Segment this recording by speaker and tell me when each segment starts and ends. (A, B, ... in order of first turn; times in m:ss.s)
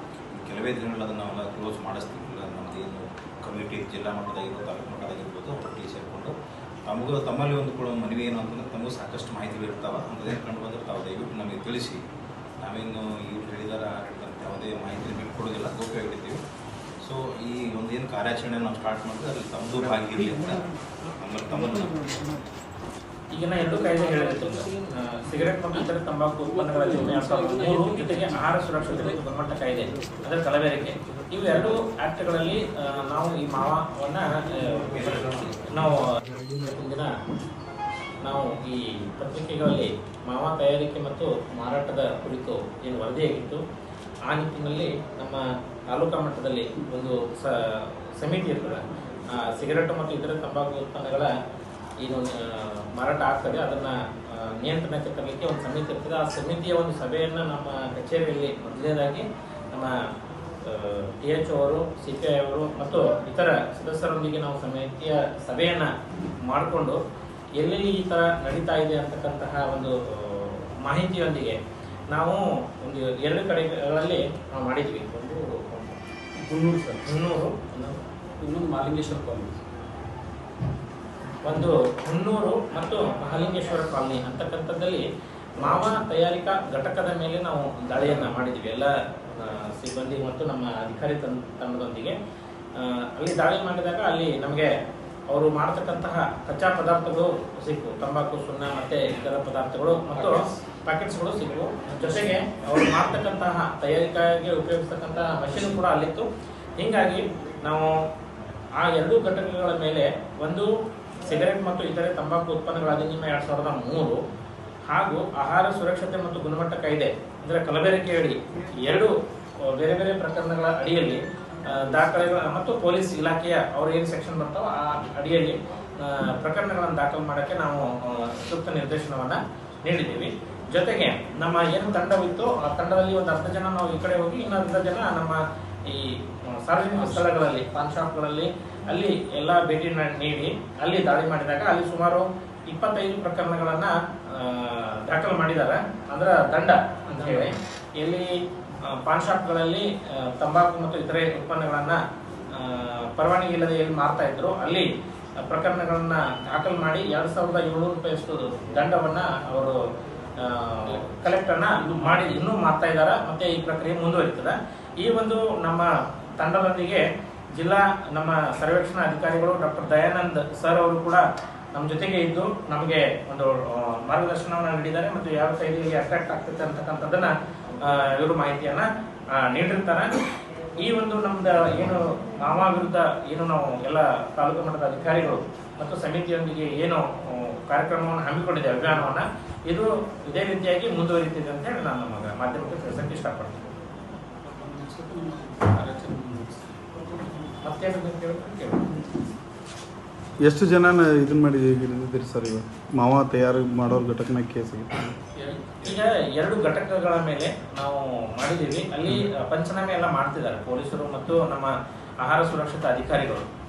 0:00.3-0:06.4 A
0:06.9-0:12.0 A
0:12.6-0:16.4 A
0:17.0-0:22.2 A
0:23.3-0:36.0 B
0:23.8-0:24.7 C
0:26.5-0:29.2 C
0:34.5-0:35.0 C
0:34.9-0:35.8 A
0:36.2-0:36.7 D
0:36.6-0:37.1 B
0:38.2-0:43.6 B
0:44.3-0:51.3 B
0:52.0-0:59.9 B
1:00.6-1:05.9 B
1:06.4-1:07.0 B
1:07.6-1:11.6 B
1:12.1-1:16.0 B
1:16.4-1:17.0 C
1:17.0-1:18.0 B
1:18.4-1:19.6 C
1:21.4-1:25.1 B
1:25.6-1:32.2 B
1:32.8-1:34.7 B
1:35.3-1:46.3 B
1:40.2-1:40.5 C
1:46.8-1:48.0 B
1:48.8-1:50.7 B
1:51.2-1:54.2 B
1:54.9-1:59.1 B
1:59.6-2:28.3 B
2:17.0-2:17.4 C
2:27.1-2:27.5 C
2:28.9-2:32.0 B
2:32.6-2:34.9 B
2:35.4-2:39.8 B
2:40.4-2:45.9 B
2:40.8-2:42.4 C
2:46.4-2:47.0 B
2:47.6-2:51.2 B
2:51.8-2:58.9 B
2:59.4-3:00.2 B
3:00.8-3:13.7 B
3:14.5-3:17.6 C
3:17.6-3:18.9 B
3:20.4-3:25.2 D
3:25.4-3:26.0 C
3:25.8-3:31.7 B
3:32.2-3:33.5 B